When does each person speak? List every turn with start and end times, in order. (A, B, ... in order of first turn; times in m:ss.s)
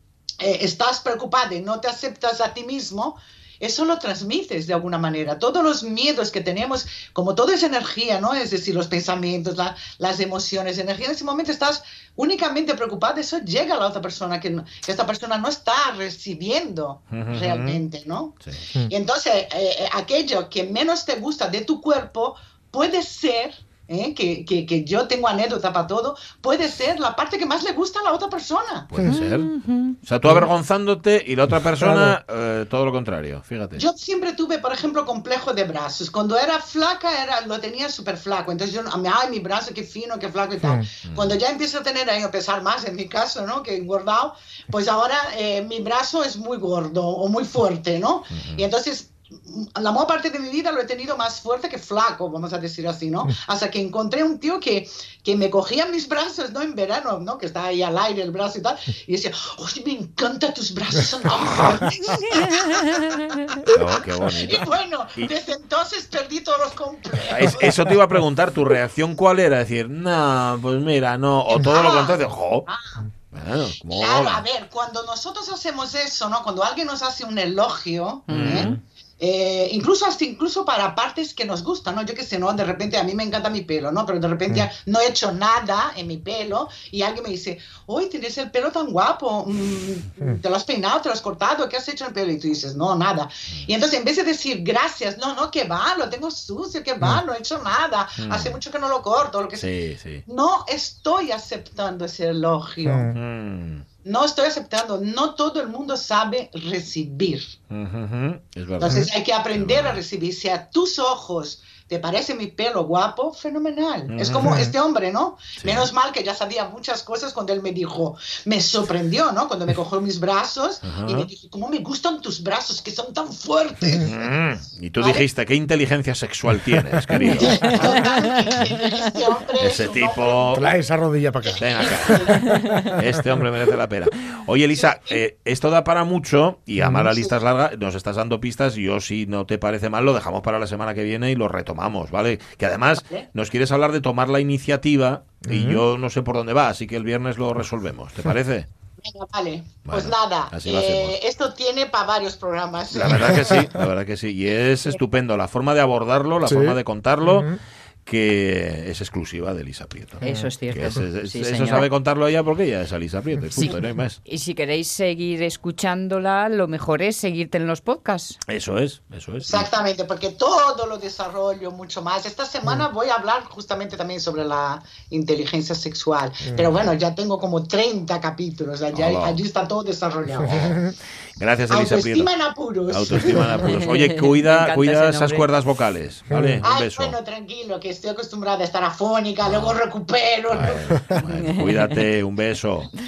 0:00.4-0:18.4 A
0:17.1-0:17.8 B
0:18.9-0:28.9 A
0:28.9-0:29.5 B
0:29.1-0:30.0 C
0:30.0-0:33.8 B
0:31.8-0:32.2 D
0:33.8-1:07.9 A
0:40.6-0:40.9 D
0:41.1-0:41.4 B
0:48.3-0:48.6 B
1:01.3-1:01.9 B
1:02.6-1:03.4 C
1:03.7-1:05.3 B
1:07.3-1:12.7 B
1:11.6-1:13.0 A
1:13.3-1:14.4 B
1:13.9-1:39.7 A
1:18.3-1:18.7 C
1:18.3-1:18.8 B
1:38.2-1:38.6 B
1:39.6-1:40.2 B
1:40.3-1:43.2 A
1:42.8-1:43.2 D
1:43.2-1:43.8 B
1:44.0-1:47.6 A
1:47.7-1:50.0 B
1:48.8-2:04.2 A
1:54.1-1:54.6 B
1:54.4-1:54.7 D
1:55.6-1:55.9 B
2:00.8-2:01.3 B
2:04.0-2:07.9 B
2:05.0-2:05.2 A
2:07.2-2:09.1 C
2:07.4-2:10.6 A
2:09.6-2:10.7 B
2:10.5-2:13.0 D
2:11.4-2:12.4 A
2:11.6-2:28.7 B
2:12.4-2:12.9 C
2:16.8-2:17.1 D
2:23.0-2:23.3 A
2:25.4-2:25.8 D
2:29.0-2:33.5 A
2:29.9-2:31.2 B
2:32.9-2:37.5 B
2:36.4-2:37.6 D
2:38.1-2:44.2 B
2:40.2-2:41.9 C
2:40.2-2:40.5 D
2:43.6-2:48.4 C
2:48.5-2:49.7 B
2:49.4-3:00.8 A
2:56.4-2:56.7 D
2:58.9-2:59.4 B
3:00.4-3:00.9 D
3:00.5-3:02.3 B
3:01.7-3:03.6 A
3:02.9-3:07.2 B
3:03.7-3:05.5 C
3:06.3-3:06.6 D
3:06.6-3:10.9 A
3:09.4-3:09.8 B
3:10.5-3:12.9 B
3:11.2-3:12.0 C